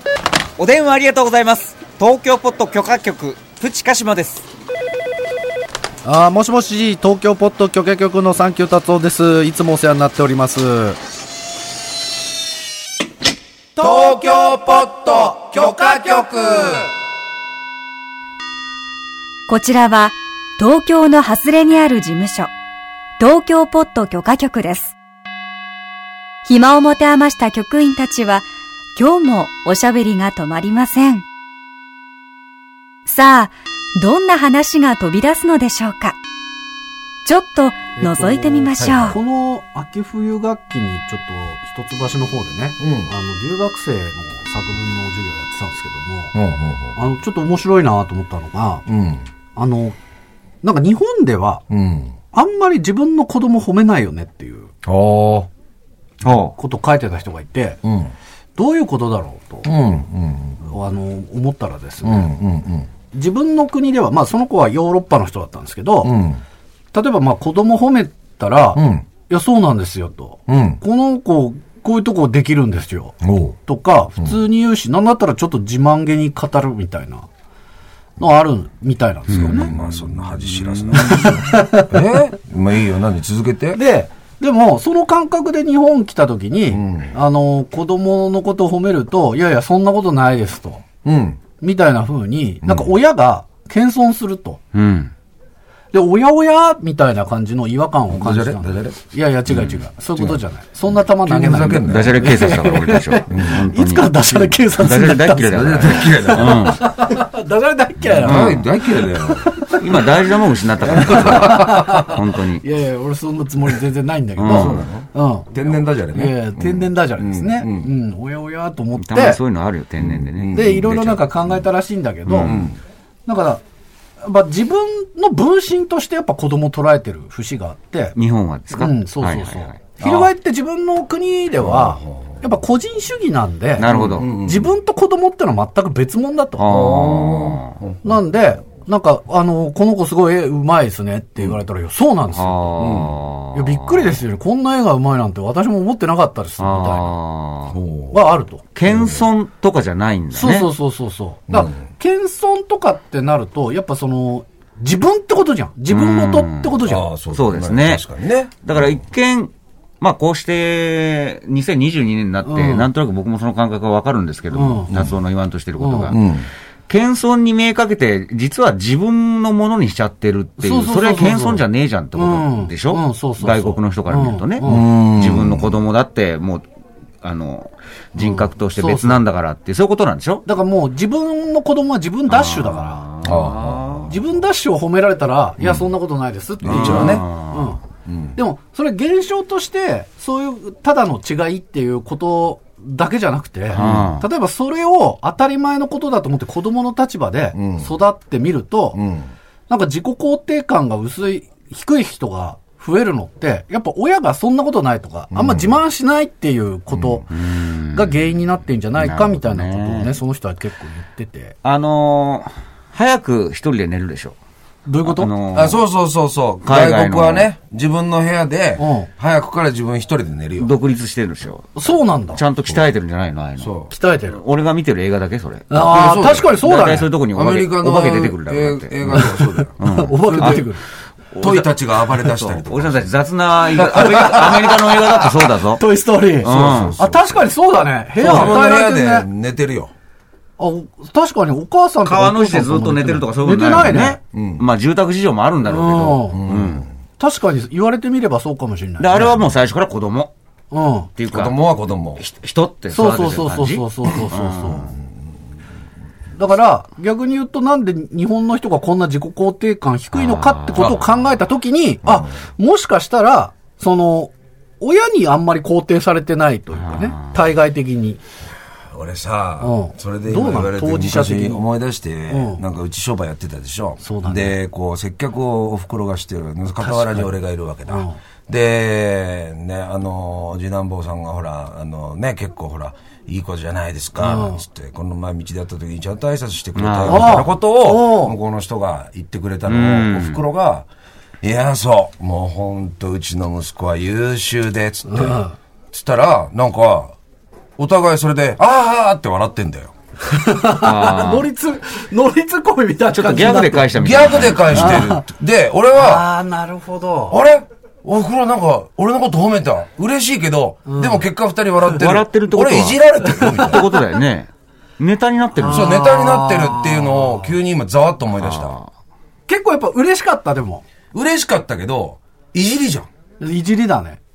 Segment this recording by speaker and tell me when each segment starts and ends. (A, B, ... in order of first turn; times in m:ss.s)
0:00.6-0:04.5 A
0:06.0-0:11.0 B
0:13.8-0:16.9 C
0:19.5-0:22.5 D
0:23.2-0:25.0 D
0:26.4-0:28.4 D
0:29.0-0:31.2 D
0:33.1-0:36.2 D
0:37.2-0:39.2 D
0:38.0-0:46.3 B
0:38.8-0:39.2 C
0:42.8-0:43.1 C
0:46.3-0:47.0 C
0:47.0-0:48.8 B
0:48.9-0:49.3 C
0:49.6-0:50.0 B
0:50.6-0:51.6 B
0:51.7-0:52.2 C
0:52.3-0:54.7 B
0:54.8-0:55.5 C
0:56.2-0:56.6 A
0:56.6-0:57.8 B
0:57.8-0:58.1 C
0:58.6-0:59.7 B
0:59.6-1:00.7 C
1:00.6-1:02.3 B
1:02.0-1:02.9 C
1:03.1-1:06.1 B
1:06.0-1:06.4 C
1:06.9-1:17.3 B
1:08.8-1:09.1 C
1:10.5-1:10.8 C
1:13.2-1:13.6 C
1:18.2-1:19.7 B
1:19.3-1:23.8 C
1:19.4-1:21.4 A
1:20.9-1:22.0 B
1:23.7-1:30.8 B
1:26.7-1:27.1 C
1:31.0-1:31.4 C
1:31.6-1:34.6 B
1:32.6-1:32.9 C
1:34.7-1:35.1 A
1:35.9-1:55.5 B
1:38.1-1:39.0 C
1:39.5-1:39.8 A
1:40.9-1:42.3 C
1:41.4-1:46.8 A
1:43.3-1:43.7 C
1:45.5-1:46.8 C
1:48.2-1:49.5 C
1:48.2-1:48.6 A
1:49.8-1:52.6 A
1:50.9-1:52.0 C
1:54.4-1:54.8 A
1:54.5-1:57.9 C
1:56.1-1:59.4 B
1:59.0-2:01.2 A
2:00.0-2:01.2 C
2:00.5-2:02.6 B
2:02.3-2:02.7 A
2:02.4-2:02.8 C
2:03.3-2:03.6 B
2:04.2-2:08.2 B
2:08.2-2:10.3 A
2:08.8-2:16.8 B
2:11.6-2:12.4 C
2:13.8-2:14.3 A
2:13.9-2:14.7 C
2:16.6-2:17.8 A
2:16.7-2:18.2 C
2:18.0-2:27.2 B
2:22.3-2:24.2 A
2:22.8-2:23.2 C
2:26.6-2:27.8 A
2:27.7-2:29.3 C
2:28.1-2:28.6 B
2:28.8-2:30.7 A
2:30.3-2:37.0 B
2:35.9-2:36.8 A
2:36.8-2:39.0 C
2:37.3-2:38.0 A
2:38.6-2:46.3 A
2:42.4-2:42.9 B
2:44.5-2:44.9 B
2:44.9-2:45.2 C
2:45.8-2:46.2 B
2:46.1-2:46.5 C
2:46.9-2:56.6 A
2:50.6-2:51.6 B
2:52.2-2:54.9 B
2:54.6-2:55.7 C
2:57.2-3:00.4 A
2:58.2-2:59.2 B
3:00.5-3:03.0 B
3:02.3-3:04.1 A
3:03.2-3:04.2 C
3:04.1-3:07.8 B
3:06.6-3:07.2 C
3:06.6-3:07.7 A
3:08.1-3:08.4 C
3:08.4-3:19.0 B
3:13.7-3:14.3 A
3:13.8-3:14.1 C
3:17.6-3:17.9 C
3:19.0-3:19.3 C
3:19.7-3:27.3 B
3:25.3-3:25.8 C
3:26.9-3:27.2 C
3:27.3-3:28.2 A
3:27.9-3:31.5 B
3:29.0-3:30.1 A
3:31.6-3:34.4 A
3:34.9-3:35.3 B
3:35.0-3:35.8 A
3:35.5-3:40.7 C
3:36.6-3:37.5 A
3:38.8-3:39.1 B
3:40.6-3:43.7 A
3:41.8-3:42.4 B
3:43.6-3:43.9 C
3:43.9-3:44.4 B
3:44.3-3:45.9 A
3:45.7-3:47.1 B
3:45.7-3:46.6 C
3:46.5-3:50.7 A
3:47.3-3:50.6 C
3:49.1-3:50.8 B
3:51.3-3:55.8 A
3:51.4-3:53.1 C
3:53.8-3:55.1 C
3:55.7-3:59.3 B
3:56.4-3:57.0 A
3:56.5-3:57.5 C
3:58.2-3:59.9 C
3:58.2-3:58.6 A
4:00.6-4:04.2 B
4:02.0-4:06.9 A
4:04.3-4:04.6 C
4:05.6-4:06.4 B
4:06.3-4:06.9 C
4:07.2-4:09.5 B
4:09.0-4:10.3 A
4:10.7-4:11.1 B
4:11.2-4:11.6 A
4:11.3-4:12.2 C
4:12.2-4:14.9 A
4:12.9-4:14.9 B
4:16.4-4:28.2 B
4:20.1-4:21.0 A
4:26.8-4:27.4 A
4:28.9-4:50.9 C
4:29.6-4:31.6 B
4:32.3-4:32.6 B
4:34.0-4:34.6 B
4:36.8-4:37.3 B
4:37.9-4:38.2 B
4:44.2-4:44.6 B
4:46.8-4:47.4 A
4:47.1-4:48.4 B
4:49.7-4:50.4 A
4:51.4-4:57.1 C
4:55.1-4:55.5 B
4:57.8-4:59.9 C
5:00.2-5:05.2 B
5:00.7-5:01.5 A
5:03.1-5:05.1 A
5:03.9-5:06.3 C
5:05.9-5:07.4 B
5:07.3-5:13.8 C
5:10.9-5:11.2 B
5:11.9-5:16.0 A
5:15.6-5:17.5 B
5:15.7-5:18.8 C
5:18.4-5:18.9 A
5:19.5-5:20.8 B
5:21.1-5:23.1 C
5:23.4-5:24.2 B